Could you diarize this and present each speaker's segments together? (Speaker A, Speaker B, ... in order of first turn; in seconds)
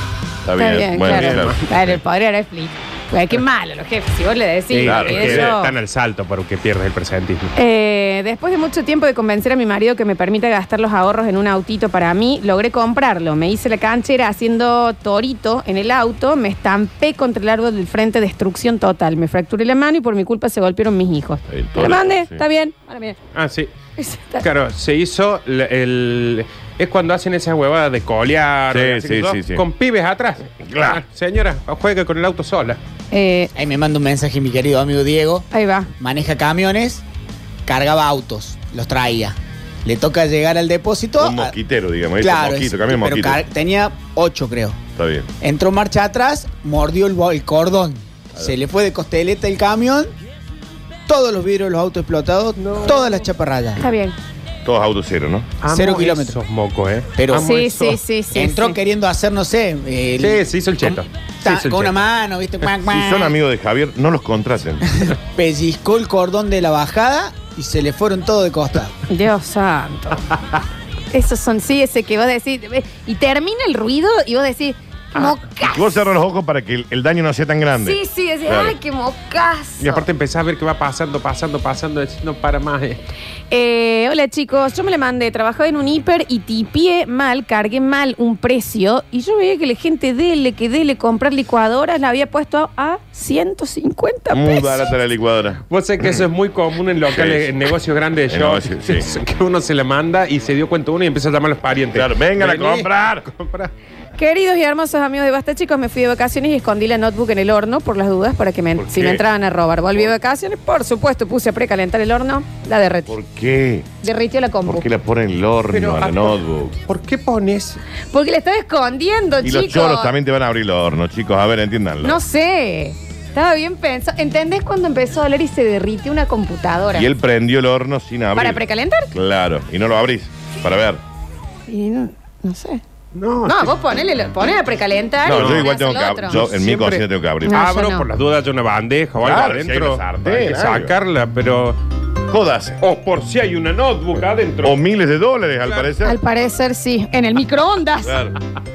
Speaker A: 0.4-2.0, 4.8-5.5, 21.5-22.4, 28.7-29.6, 30.6-31.0, 41.2-43.4, 45.0-45.3, 54.6-55.5, 62.8-65.0, 75.6-78.8, 94.3-95.6, 97.1-97.5, 98.3-99.1, 101.9-103.3, 113.1-113.9, 114.7-116.8, 119.4-122.2, 126.9-131.0, 135.2-137.7, 139.2-140.9, 142.3-142.8, 144.6-146.2, 148.0-148.4
Speaker B: 0.6-5.7, 7.6-23.2, 24.0-24.4, 33.1-33.5, 35.5-35.9, 53.8-54.2, 57.4-58.7, 69.1-70.3, 71.1-76.0, 77.8-80.0, 83.5-94.9, 104.2-113.2, 114.0-114.9, 118.1-120.2, 122.0-127.1, 128.3-129.2, 131.7-132.8, 133.4-136.5, 137.4-138.1, 146.0-148.2
Speaker C: 1.1-1.6, 4.7-7.5, 23.4-23.7, 24.4-32.8, 52.6-53.1, 55.6-58.0, 60.2-62.1, 79.8-83.0, 95.7-103.7, 108.8-109.2, 115.7-117.8, 133.1-133.8, 135.3-135.7, 136.3-141.8, 142.8-144.8
Speaker D: 33.5-35.5, 36.0-37.0, 37.7-41.5, 42.2-44.8, 45.4-50.1, 51.1-53.9, 55.7-56.4, 57.2-57.5, 58.3-63.4, 65.0-68.9